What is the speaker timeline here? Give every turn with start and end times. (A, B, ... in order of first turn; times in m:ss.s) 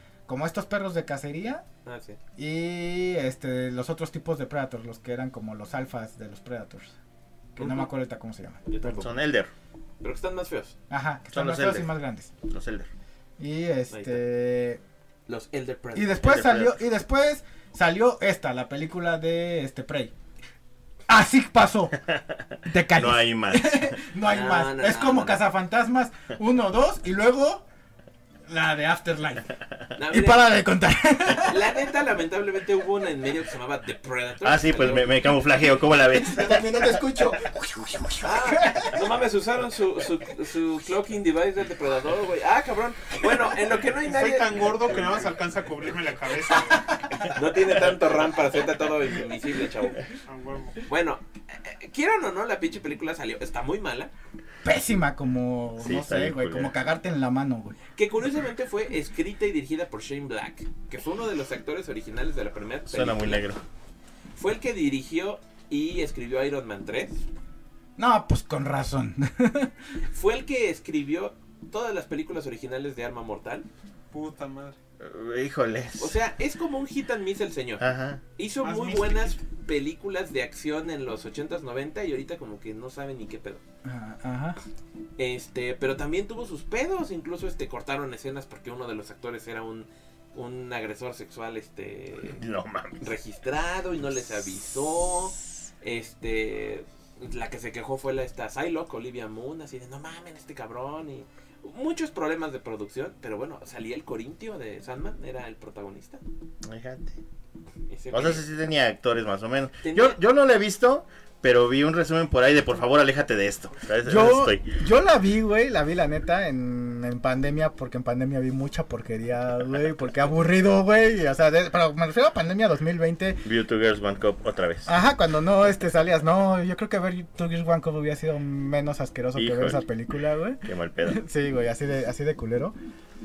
0:00.3-0:01.6 A
0:01.8-0:02.2 B
0:02.4-0:07.0 A
0:07.6-0:09.1 A
0:07.6-0:07.9 B
0:08.7-0:09.1 B
0:08.9-0:09.5 C
0:10.0-0:10.8 B
0:10.9-0:12.3 A
0:11.3-0:11.9 C
0:12.5-0:12.9 C
0:13.4-0:14.8 A
0:13.9-0:14.2 B
0:15.3-0:16.4 B
0:16.0-0:20.1 A
0:16.2-0:16.8 C
0:21.1-0:22.0 A
0:22.6-0:27.7 A
0:23.0-0:24.0 C
0:24.2-0:25.4 B
0:28.5-0:29.5 A
0:30.0-0:30.5 B
0:30.1-0:31.7 A
0:31.4-0:35.1 B
0:34.4-0:37.4 C
0:36.1-0:39.0 A
0:38.2-0:45.2 B
0:44.0-0:47.0 D
0:46.5-0:47.3 A
0:47.3-0:50.0 B
0:50.3-0:50.8 D
0:50.9-0:54.1 B
0:54.6-0:57.8 A
0:55.8-0:56.7 C
0:58.0-1:03.4 B
1:02.9-1:03.6 C
1:04.4-1:07.2 B
1:08.0-1:09.8 A
1:10.1-1:13.7 B
1:14.1-1:14.8 D
1:15.0-1:16.2 C
1:16.0-1:17.8 B
1:17.8-1:18.2 C
1:18.4-1:23.6 B
1:18.6-1:19.4 D
1:23.8-1:24.6 A
1:25.2-1:32.4 B
1:32.2-1:33.1 C
1:33.0-1:46.2 B
1:46.6-1:47.2 C
1:47.9-1:48.4 B
1:48.1-1:54.7 C
1:49.8-1:50.2 B
1:54.0-2:03.4 A
2:03.4-2:04.9 C
2:04.9-2:12.8 A
2:09.4-2:09.9 C
2:10.6-2:11.2 C